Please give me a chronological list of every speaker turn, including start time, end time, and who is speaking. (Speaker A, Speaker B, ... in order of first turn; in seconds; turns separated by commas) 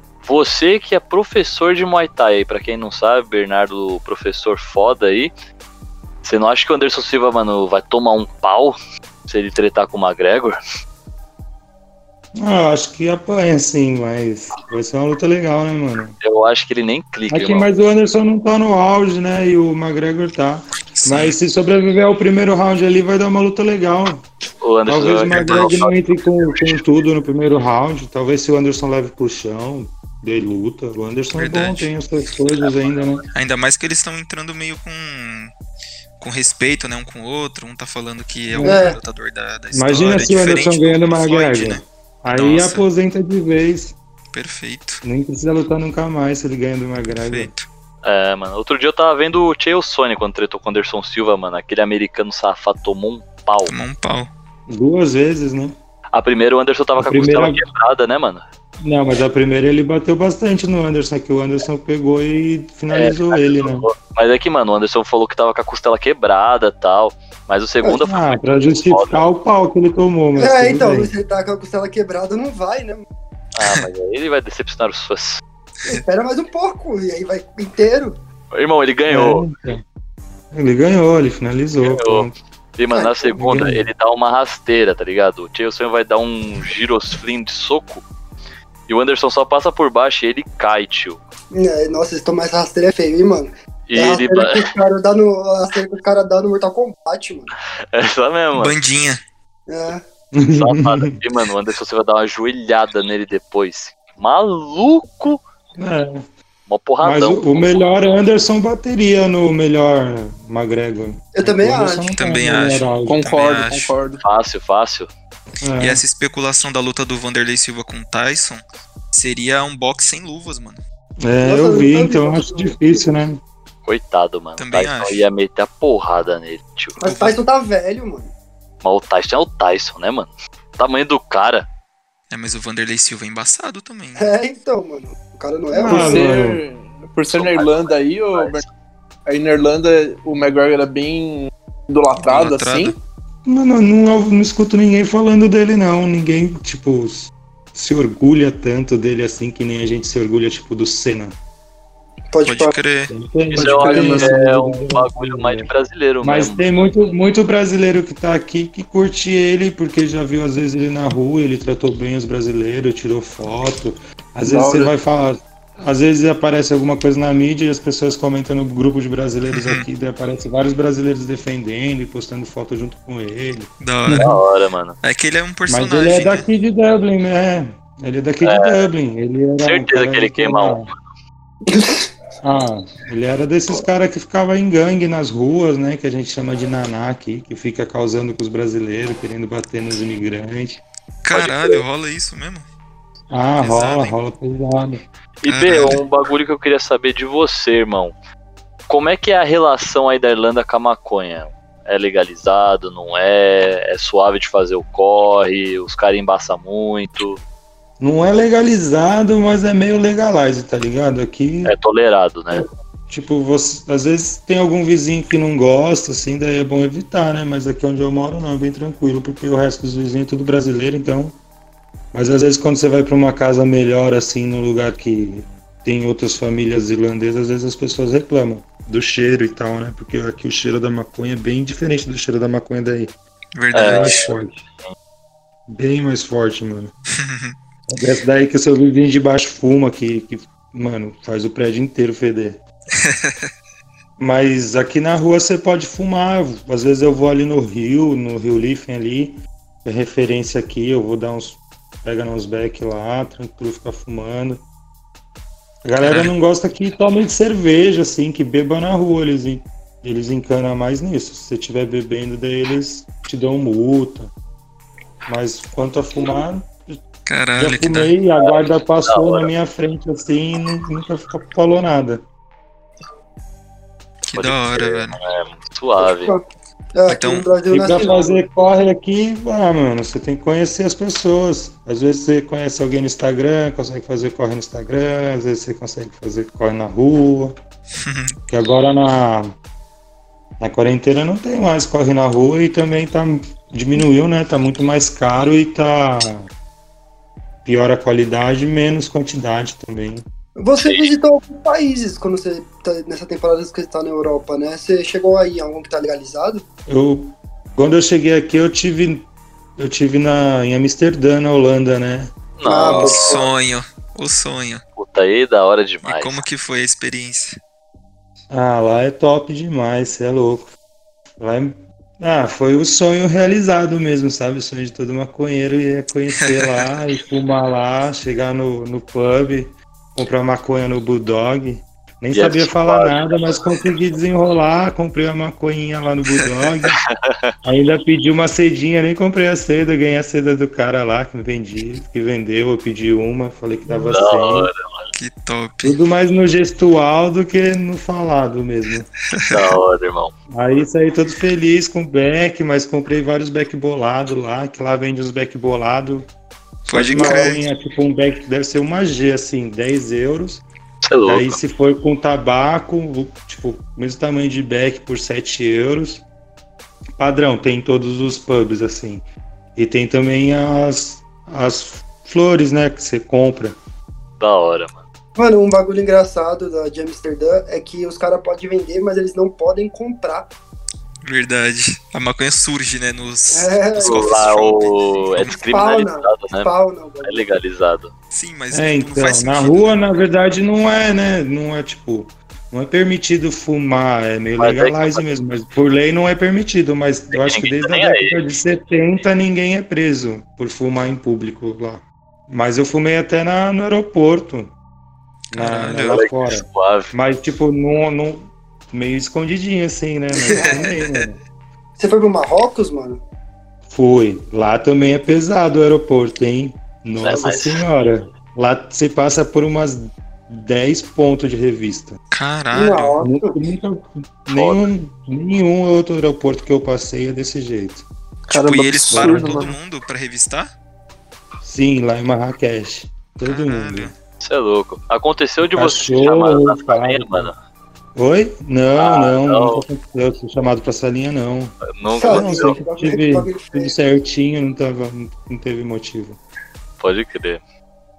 Speaker A: 0.2-5.3, Speaker A: 6.2-10.6, Speaker B: 12.3-16.1, Speaker A: 16.2-17.7, Speaker B: 17.3-24.2, Speaker C: 20.9-21.3, Speaker A: 24.6-26.8, Speaker B: 24.9-33.2, Speaker C: 25.3-25.7, Speaker C: 31.3-31.9, Speaker C: 33.3-35.5, Speaker C: 36.2-42.8, Speaker B: 38.5-38.8, Speaker D: 38.6-39.0, Speaker B: 39.7-43.9, Speaker C: 44.3-45.0, Speaker B: 45.0-47.5, Speaker C: 47.2-47.6, Speaker A: 48.0-53.7, Speaker C: 53.6-54.3, Speaker B: 54.7-55.7, Speaker A: 56.1-58.4, Speaker B: 57.0-57.6, Speaker B: 58.8-63.9, Speaker A: 62.9-69.2, Speaker B: 68.0-71.1, Speaker D: 70.3-73.0, Speaker A: 73.5-75.4, Speaker D: 75.8-78.2, Speaker A: 78.5-79.4, Speaker B: 79.1-79.8, Speaker B: 80.5-82.3, Speaker A: 81.8-88.0, Speaker D: 82.9-83.3, Speaker B: 83.4-83.9, Speaker A: 88.9-91.2, Speaker D: 91.5-97.5, Speaker A: 93.9-94.7, Speaker A: 97.9-98.7, Speaker C: 98.5-99.2, Speaker D: 99.7-100.0, Speaker B: 100.3-101.1, Speaker A: 100.5-105.4, Speaker B: 105.8-106.2, Speaker A: 106.7-107.6, Speaker B: 107.0-113.2, Speaker D: 111.3-112.1, Speaker C: 112.2-113.9, Speaker E: 113.1-114.2, Speaker A: 114.2-115.1, Speaker B: 115.6-116.0, Speaker C: 115.8-120.8, Speaker B: 121.2-123.4, Speaker D: 121.4-123.1, Speaker A: 123.8-127.0, Speaker C: 124.6-125.2, Speaker D: 127.0-128.3, Speaker C: 127.0-127.4, Speaker A: 128.8-131.7, Speaker C: 132.3-134.3, Speaker D: 134.2-136.3, Speaker B: 135.7-136.6, Speaker E: 135.8-138.6, Speaker A: 137.3-138.6, Speaker E: 139.3-142.9, Speaker C: 142.2-143.0, Speaker B: 143.4-151.3, Speaker D: 152.3-152.7, Speaker C: 152.4-153.1, Speaker B: 153.1-155.7, Speaker A: 153.5-156.7, Speaker E: 153.6-154.3, Speaker B: 156.2-174.4, Speaker E: 164.4-164.9, Speaker C: 169.5-169.8, Speaker C: 173.8-174.3, Speaker A: 174.1-175.0, Speaker C: 175.0-176.5, Speaker B: 175.7-180.9, Speaker A: 178.4-178.9, Speaker A: 179.6-181.0, Speaker D: 181.7-182.1, Speaker B: 182.4-190.8, Speaker C: 191.2-192.7, Speaker D: 191.5-191.8, Speaker B: 193.3-195.0, Speaker C: 193.6-194.1, Speaker A: 195.4-198.1, Speaker C: 195.5-196.0, Speaker A: 198.9-207.4, Speaker B: 208.0-211.7, Speaker A: 211.6-212.7, Speaker B: 212.5-221.3, Speaker B: 222.1-233.1, Speaker C: 233.6-234.3, Speaker A: 233.7-234.3, Speaker B: 233.8-234.6, Speaker B: 235.7-236.9, Speaker C: 237.2-237.5, Speaker B: 237.9-242.6, Speaker C: 243.0-243.5, Speaker B: 244.2-254.6, Speaker B: 255.8-264.3, Speaker C: 256.0-256.3, Speaker B: 265.3-267.0, Speaker C: 267.2-268.1, Speaker B: 267.6-272.2, Speaker A: 268.4-269.5, Speaker C: 274.3-275.2, Speaker A: 274.3-276.3, Speaker D: 276.0-276.4, Speaker D: 276.9-278.4, Speaker C: 277.1-277.5, Speaker B: 277.7-287.5, Speaker C: 287.9-288.4, Speaker B: 288.5-289.5, Speaker B: 290.6-296.5, Speaker B: 297.6-300.2, Speaker D: 300.6-306.6, Speaker A: 300.8-301.1, Speaker B: 306.9-312.3, Speaker A: 312.6-313.4, Speaker D: 312.6-313.5, Speaker C: 312.8-314.8, Speaker A: 314.9-316.4, Speaker C: 316.0-317.6, Speaker B: 318.5-320.7, Speaker B: 321.4-337.0, Speaker C: 326.4-326.9, Speaker A: 332.3-333.4, Speaker A: 337.2-337.5, Speaker B: 337.6-344.7, Speaker A: 344.1-345.1, Speaker C: 345.1-345.9, Speaker B: 345.8-349.1, Speaker A: 349.5-350.3, Speaker B: 350.5-356.3, Speaker B: 356.8-360.6, Speaker C: 356.9-357.6, Speaker A: 361.0-361.6, Speaker B: 361.2-366.2, Speaker B: 367.2-369.2, Speaker B: 369.8-373.8, Speaker A: 374.4-375.0, Speaker D: 375.4-380.5, Speaker C: 381.2-385.6, Speaker D: 383.5-384.3, Speaker A: 384.0-386.7, Speaker D: 385.6-387.5, Speaker A: 387.2-388.1, Speaker C: 388.3-390.0, Speaker B: 388.7-404.7, Speaker A: 394.6-395.3, Speaker A: 397.3-398.4, Speaker B: 405.5-411.4, Speaker C: 405.5-406.2, Speaker A: 406.0-407.1, Speaker D: 410.3-410.9, Speaker D: 412.0-413.2, Speaker B: 413.9-422.2, Speaker A: 417.2-417.8, Speaker C: 422.3-423.2, Speaker D: 422.7-423.6, Speaker B: 423.2-428.0, Speaker A: 424.5-424.9, Speaker C: 428.5-430.7, Speaker E: 428.5-429.7, Speaker B: 429.1-429.7, Speaker B: 431.6-434.1, Speaker C: 433.4-434.1, Speaker A: 434.4-437.6, Speaker B: 435.6-437.5, Speaker B: 438.1-446.4, Speaker A: 438.9-439.8, Speaker A: 441.9-442.8, Speaker D: 442.1-443.9, Speaker A: 447.0-447.6